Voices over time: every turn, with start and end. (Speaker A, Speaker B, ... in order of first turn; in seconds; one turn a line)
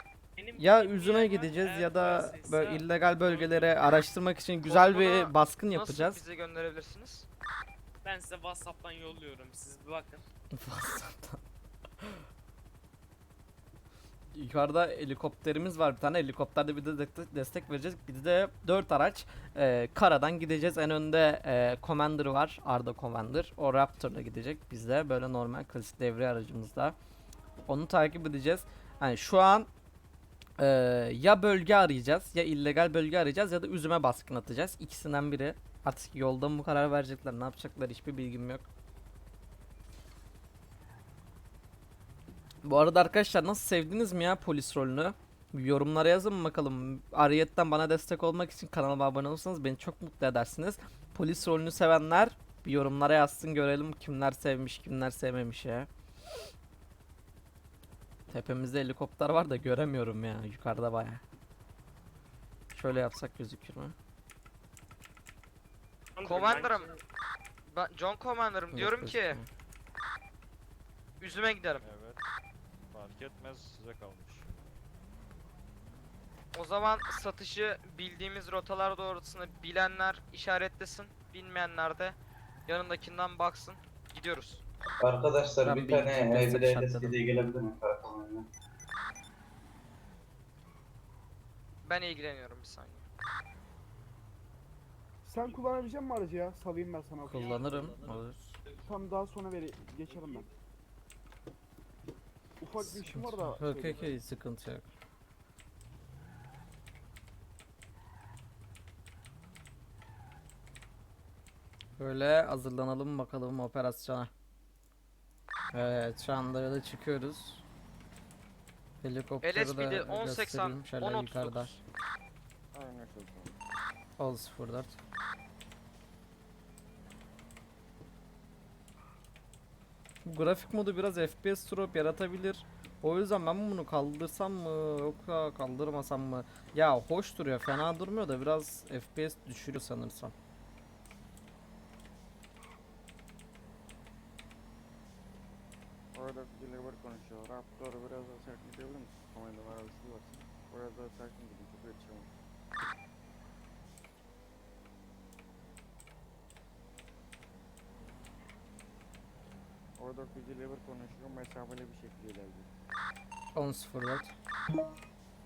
Speaker A: 0.4-3.7
Speaker B: 0.6-6.2
Speaker C: 4.6-7.3
Speaker A: 8.0-10.2
Speaker B: 10.5-11.4
Speaker B: 14.3-26.9
Speaker B: 27.6-29.7
Speaker B: 30.6-38.6
Speaker B: 42.6-55.9
Speaker B: 58.3-61.2
Speaker B: 62.7-63.9
Speaker A: 66.2-66.9
Speaker C: 66.2-66.9
Speaker C: 67.7-69.4
Speaker B: 68.7-69.4
Speaker C: 71.2-71.8
Speaker D: 71.8-72.2
Speaker D: 72.9-74.7
Speaker C: 76.5-82.2
Speaker C: 82.7-84.6
Speaker E: 85.0-88.5
Speaker B: 85.6-87.2
Speaker C: 91.8-93.0
Speaker F: 95.2-97.6
Speaker B: 97.2-98.6
Speaker F: 98.8-100.5
Speaker F: 102.6-104.1
Speaker B: 102.8-104.9
Speaker B: 112.0-114.3
Speaker B: 115.7-117.6
Speaker B: 119.0-121.8
Speaker C: 119.4-121.8
Speaker G: 122.7-123.6
Speaker B: 124.2-125.0
Speaker B: 130.2-140.3
Speaker G: 146.1-152.3
Speaker G: 160.0-162.7
Speaker B: 163.5-164.3